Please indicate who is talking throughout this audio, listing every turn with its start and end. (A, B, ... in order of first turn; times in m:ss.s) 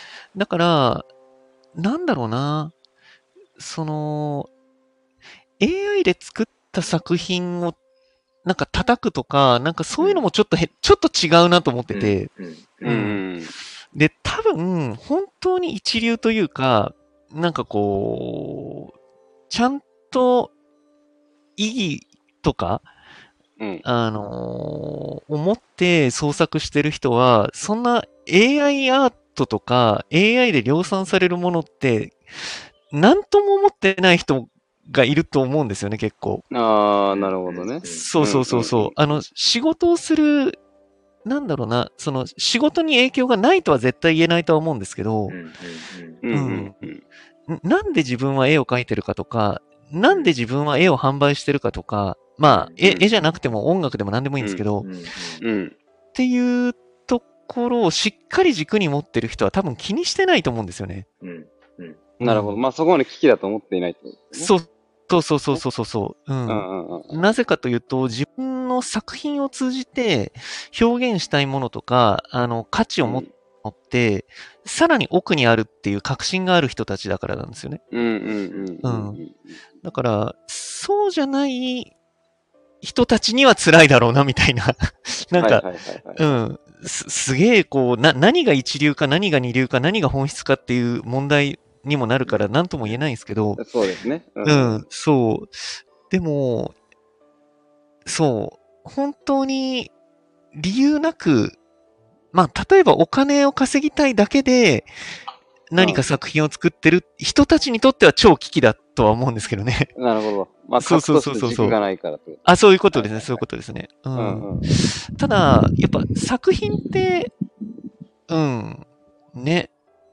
0:00.3-0:01.1 A
0:01.7-0:02.7 A
0:03.6-0:04.5 A
0:05.6-0:07.8 A
0:08.4-0:12.3 A
0:10.0-0:10.2 B
0:11.9-0:13.1 B
0:12.8-0:13.2 A
0:12.8-0:13.5 C
0:13.9-0:18.9 A
0:19.5-0:20.5 A
0:21.6-0:22.9 A
0:23.6-0:23.8 C
0:23.8-0:32.2 A
0:32.9-0:36.4 A
0:36.5-0:38.9 C
0:37.1-0:38.6 B
0:37.8-0:40.6 A
0:41.2-0:45.4 A
0:45.3-0:46.2 B
0:46.2-0:47.0 C
0:46.3-0:46.7 A
0:47.5-0:54.8 A
0:52.4-0:52.8 B
0:52.8-0:53.1 C
0:54.8-0:55.4 B
0:55.4-0:55.8 C
0:56.1-1:01.1 A
1:01.2-1:02.0 B
1:02.2-1:04.5 C
1:02.2-1:02.6 A
1:04.3-1:17.8 A
1:06.5-1:07.3 C
1:13.0-1:13.3 C
1:17.9-1:19.6 C
1:18.2-1:18.7 B
1:18.8-1:19.2 A
1:19.8-1:21.9 A
1:22.8-1:33.6 A
1:25.4-1:26.2 C
1:32.3-1:33.0 B
1:33.6-1:34.8 C
1:34.4-1:36.7 A
1:38.0-1:39.9 A
1:40.5-1:41.6 A
1:42.3-1:44.9 A
1:45.7-1:49.9 A
1:45.8-1:46.1 C
1:50.0-1:53.4 C
1:50.8-1:51.8 A
1:52.4-1:57.3 A
1:54.1-1:54.7 C
1:58.3-1:59.7 A